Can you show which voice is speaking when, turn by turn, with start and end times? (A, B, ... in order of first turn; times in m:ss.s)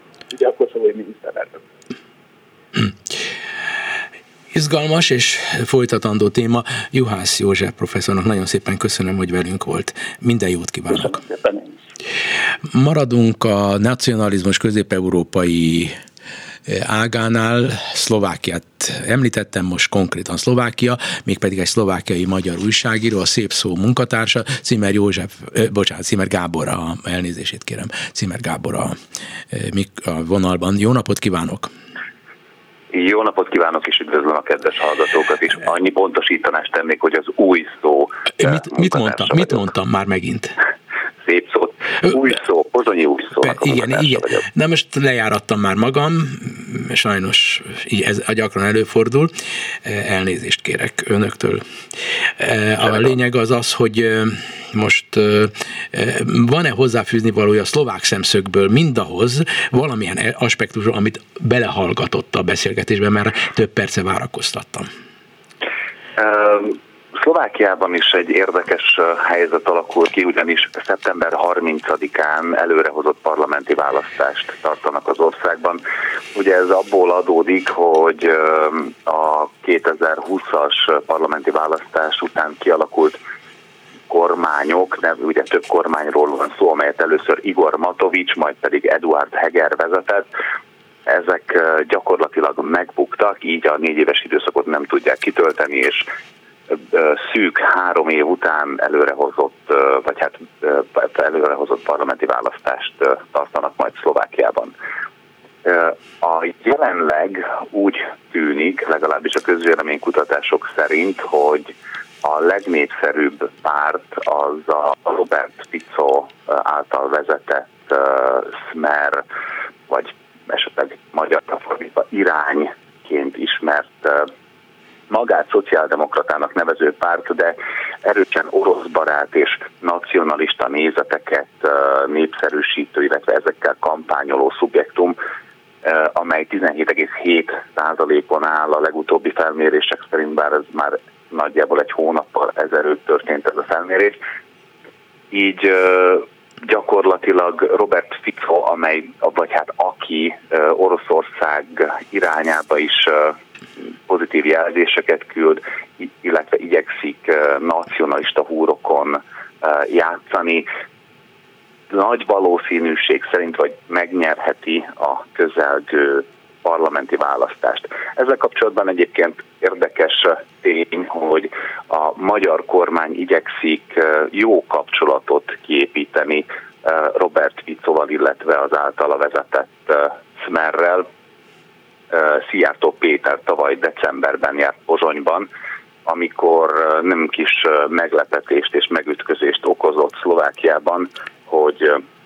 0:00.3-0:01.6 A
0:02.7-0:03.2 B
0:04.5-0:11.2 B
0:10.9-0:11.8 A
0:12.7-0:15.9 B
0:16.6-0:29.0 B
0:29.5-0:31.7 B
0:32.9-0:39.6 C
0:38.4-0:40.5 B
0:41.2-0:44.4 C
0:43.4-0:49.3 B
0:49.8-0:51.6 B
0:52.4-1:04.9 B
1:06.2-1:15.8 C
1:16.3-1:23.2 C
1:24.1-1:30.3 C
1:31.1-1:36.1 C
1:36.7-1:44.7 C
1:45.6-1:51.7 C
1:52.2-1:59.2 C
1:59.9-2:04.3 C
2:05.1-2:15.2 C
2:15.8-2:24.2 C
2:25.3-2:33.4 C
2:34.1-2:40.6 C
2:41.9-3:01.1 C
3:02.1-3:05.5 C
3:06.0-3:12.0 C